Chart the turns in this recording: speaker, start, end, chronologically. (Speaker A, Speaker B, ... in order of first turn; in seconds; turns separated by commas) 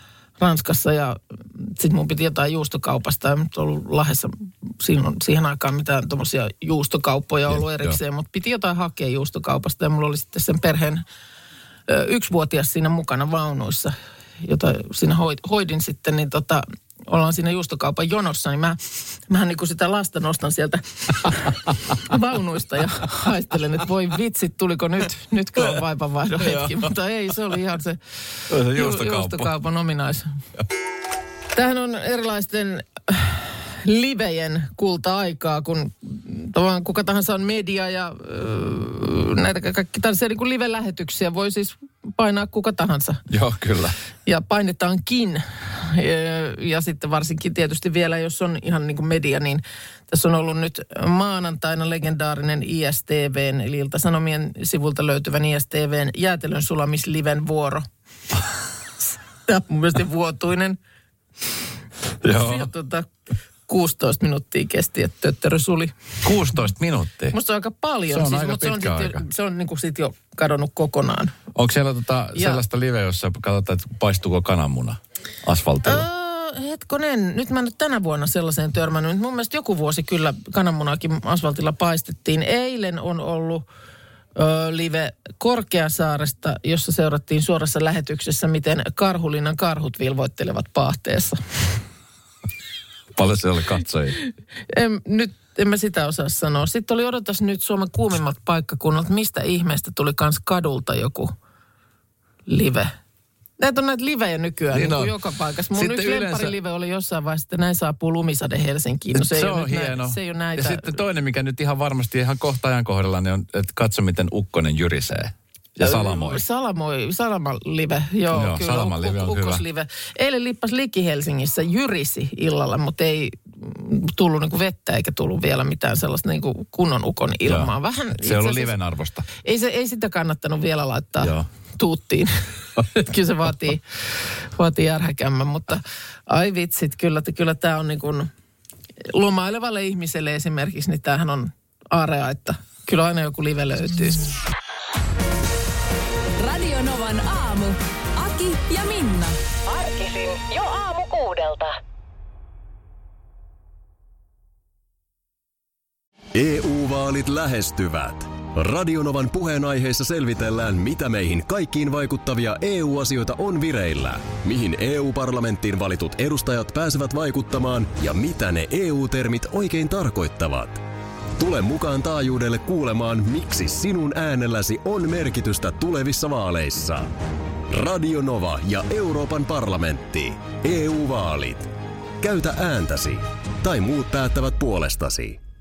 Speaker A: 0.4-11.0, Speaker B: 7.5-8.0, Speaker A: 11.9-28.0, Speaker B: 26.4-26.9, Speaker B: 28.5-29.5, Speaker A: 28.6-30.3, Speaker A: 31.6-43.2, Speaker B: 43.3-44.0, Speaker A: 44.3-57.9, Speaker A: 59.5-60.8, Speaker B: 62.2-62.7, Speaker A: 62.2-63.1, Speaker A: 63.7-65.9, Speaker B: 66.2-67.4, Speaker A: 67.3-71.3, Speaker B: 68.1-69.2, Speaker B: 71.5-76.1, Speaker A: 72.3-72.6, Speaker A: 75.8-83.7, Speaker A: 84.3-91.8, Speaker B: 93.1-94.2, Speaker A: 94.2-101.3, Speaker A: 102.5-102.9, Speaker A: 103.6-111.0, Speaker B: 104.7-105.1, Speaker B: 105.7-106.5, Speaker B: 109.1-116.4, Speaker A: 115.8-128.7, Speaker B: 118.3-119.6, Speaker B: 127.4-129.2, Speaker A: 129.4-138.3, Speaker B: 131.2-131.4, Speaker A: 139.1-144.3, Speaker C: 146.4-149.4, Speaker D: 149.7-151.7, Speaker E: 156.3-170.8, Speaker E: 171.4-177.1, Speaker E: 177.7-185.4